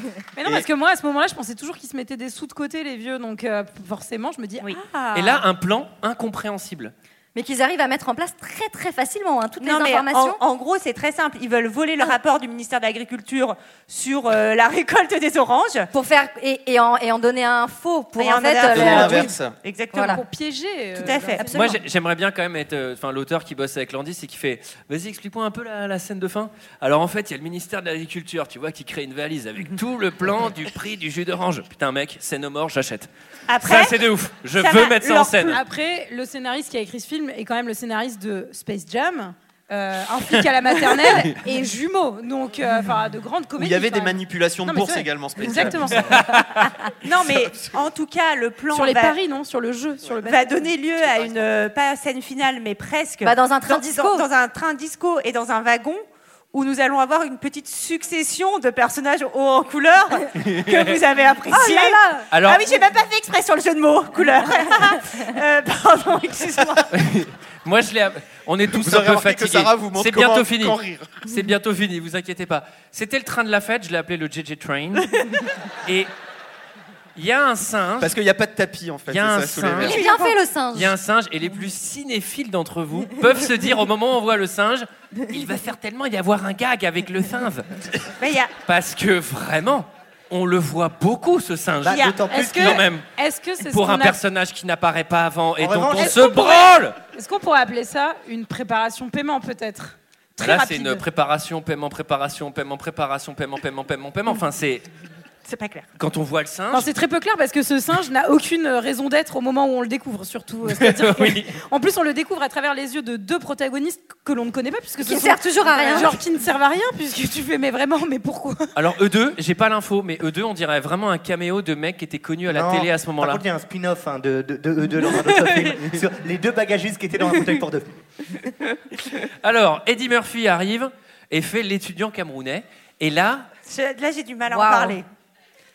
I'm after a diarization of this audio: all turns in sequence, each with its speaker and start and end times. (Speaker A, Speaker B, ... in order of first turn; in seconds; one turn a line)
Speaker A: 0.4-5.0
Speaker B: 4.6-5.4
Speaker C: 5.1-6.9
Speaker D: 7.3-10.4
Speaker B: 9.6-15.9
Speaker D: 15.9-19.3
Speaker B: 18.2-20.2
Speaker E: 18.6-19.6
Speaker D: 19.9-20.2
Speaker A: 20.1-21.6
Speaker B: 21.0-21.5
Speaker D: 21.1-21.8
Speaker C: 21.5-33.1
Speaker B: 33.5-34.0
Speaker C: 33.6-35.6
Speaker B: 34.6-35.6
Speaker A: 35.5-46.2
Speaker C: 41.0-41.4
Speaker E: 43.6-46.4
Speaker C: 46.1-46.7
Speaker B: 47.0-49.2
Speaker E: 47.3-47.8
Speaker A: 48.7-50.7
Speaker B: 50.2-66.9
Speaker D: 53.2-54.3
Speaker C: 60.4-61.0
Speaker D: 61.5-62.3
Speaker C: 62.3-62.6
Speaker C: 66.9-75.3
Speaker E: 68.7-71.3
Speaker C: 75.8-76.1
Speaker C: 77.2-78.1
Speaker E: 78.0-80.0
Speaker C: 79.1-80.0
Speaker D: 79.8-80.9
Speaker B: 79.9-80.4
Speaker C: 80.7-87.8
Speaker B: 88.2-88.5
Speaker C: 88.6-93.1
Speaker F: 91.8-92.9
Speaker B: 91.9-92.2
Speaker A: 92.3-94.2
Speaker C: 93.6-97.0
Speaker F: 95.6-96.3
Speaker A: 96.0-101.0
Speaker C: 100.4-104.9
Speaker B: 105.5-105.9
Speaker C: 106.0-106.9
Speaker A: 106.7-118.8
Speaker C: 110.7-111.6
Speaker D: 115.0-116.2
Speaker B: 115.7-116.1
Speaker C: 118.8-123.4
Speaker F: 122.5-128.0
Speaker C: 129.4-133.5
Speaker B: 133.7-135.1
Speaker D: 134.5-135.0